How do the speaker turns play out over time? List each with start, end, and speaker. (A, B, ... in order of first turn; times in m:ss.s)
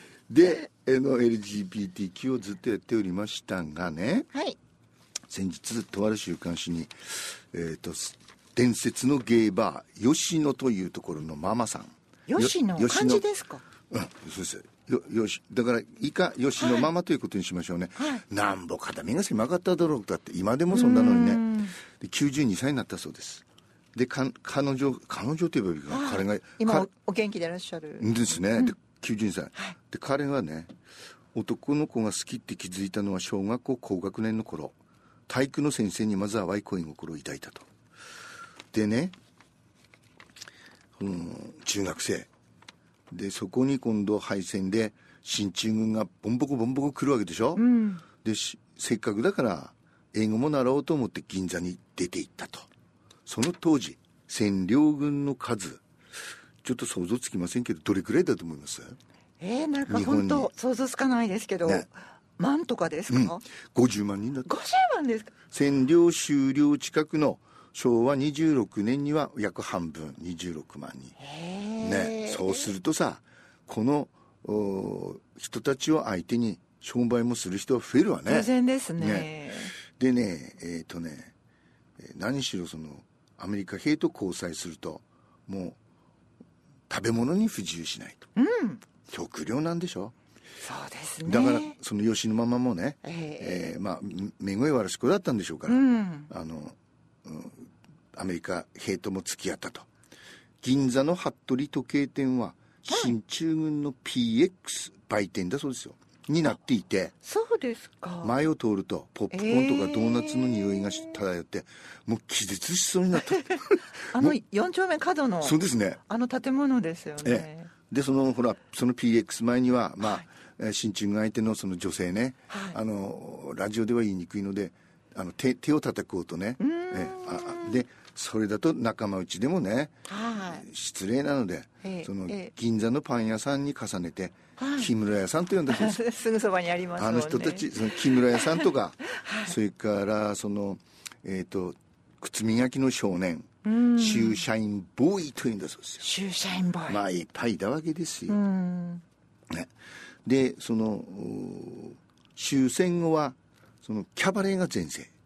0:00.3-0:04.3 A
0:05.3-0:13.2 A
0:12.3-0:13.6 B
0:13.9-0:23.4 A
0:16.6-0:16.9 B
0:18.0-0:18.2 B
0:20.7-0:21.7 B
0:23.9-0:26.9 A
0:25.9-0:28.7 B
0:28.0-0:30.7 A
0:31.3-0:34.7 A
0:35.3-0:37.6 A
0:38.7-0:39.1 A
0:41.0-0:42.3 A
0:43.1-0:47.6 A
0:47.6-0:48.0 B
0:48.2-0:52.7 A
0:53.2-0:55.8 A
0:56.6-0:59.0 A
0:59.4-1:03.4 B
0:59.9-1:00.5 A
1:03.1-1:04.5 A
1:04.4-1:05.3 B
1:05.5-1:11.2 A
1:11.2-1:12.7 B
1:11.8-1:21.3 A
1:18.2-1:19.7 B
1:22.0-1:25.8 A
1:26.9-1:28.3 A
1:28.4-1:28.8 B
1:29.1-1:30.1 A
1:30.6-1:31.8 B
1:31.2-1:39.9 A
1:33.0-1:33.8 B
1:35.7-1:36.3 B
1:40.6-1:47.1 A
1:42.9-1:43.1 B
1:47.2-1:48.3 B
1:48.2-1:54.4 A
1:49.3-1:51.2 B
1:54.1-1:57.7 B
1:55.4-1:56.0 A
1:57.2-2:09.9 A
2:02.5-2:02.8 B
2:06.6-2:07.8 B
2:10.1-2:10.6 B
2:10.5-2:16.0 A
2:11.8-2:12.5 B
2:14.6-2:14.9 B
2:15.7-2:19.5 B
2:17.0-2:26.0 A
2:23.6-2:24.4 B
2:26.0-2:27.0 B
2:26.9-2:28.4 A
2:28.3-2:29.0 B
2:30.2-2:35.1 A